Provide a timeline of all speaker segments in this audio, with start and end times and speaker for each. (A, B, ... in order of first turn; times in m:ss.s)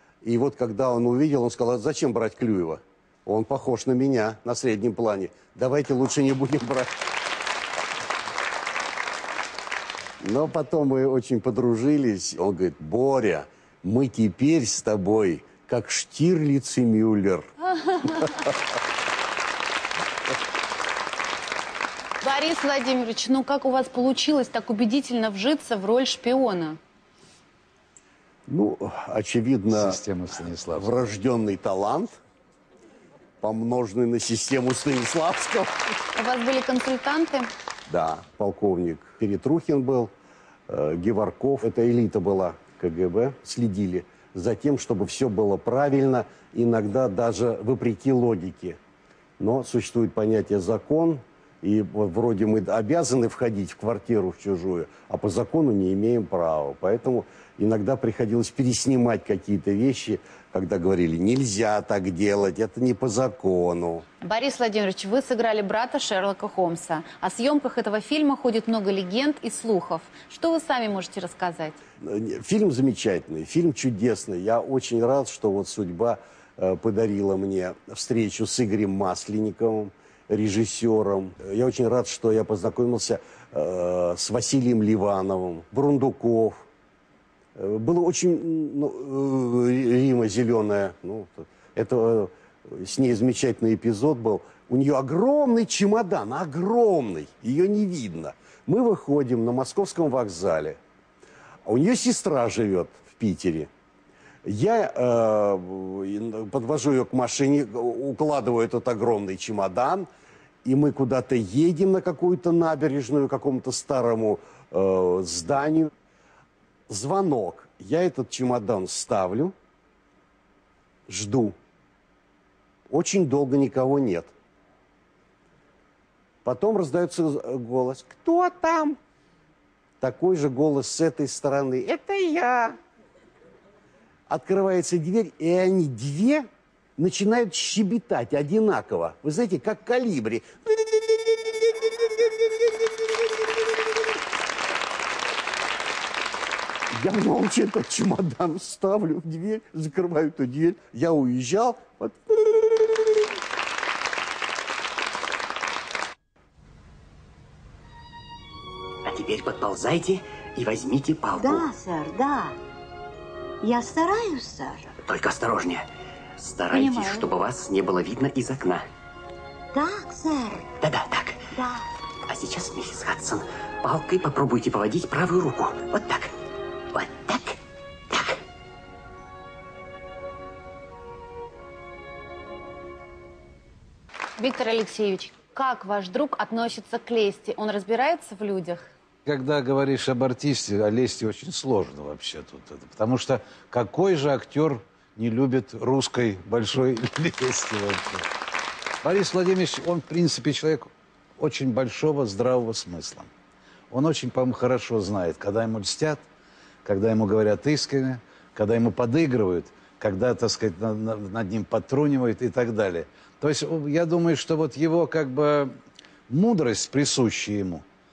0:00.2-0:07.0 A
0:10.2-0:17.4 A
0:22.2-0:26.8 B
0:28.5-0:30.0 A
0:29.7-0:30.9 C
0:30.7-0:32.2 A
0:33.4-0:35.9 A
0:36.2-0:37.5 B
0:37.9-0:40.1 A
0:40.7-0:48.8 A
0:49.4-1:04.0 A
1:04.2-1:11.8 B
1:12.0-1:26.6 A
1:27.5-1:40.8 A
1:41.6-1:43.7 A
1:44.4-1:50.1 A
1:50.6-1:55.9 A
1:56.9-1:59.5 A
2:01.1-2:01.6 A
2:02.9-2:04.3 A
2:06.4-2:09.0 A
2:10.0-2:12.8 A
2:14.3-2:21.6 A
2:26.9-2:33.1 A
2:39.0-2:41.7 D
2:41.4-2:42.6 E
2:43.6-2:44.9 E
2:44.9-2:45.9 D
2:46.4-2:48.8 D
2:46.7-2:47.3 E
2:49.7-2:50.7 E
2:50.8-2:51.4 D
2:51.5-2:51.8 E
2:52.3-2:56.3 D
2:56.9-2:57.6 D
2:58.1-2:58.4 D
3:04.4-3:08.9 B
3:09.2-3:18.2 C
3:19.0-3:23.3 C
3:23.9-3:26.2 C
3:26.8-3:35.7 C
3:36.3-3:37.8 C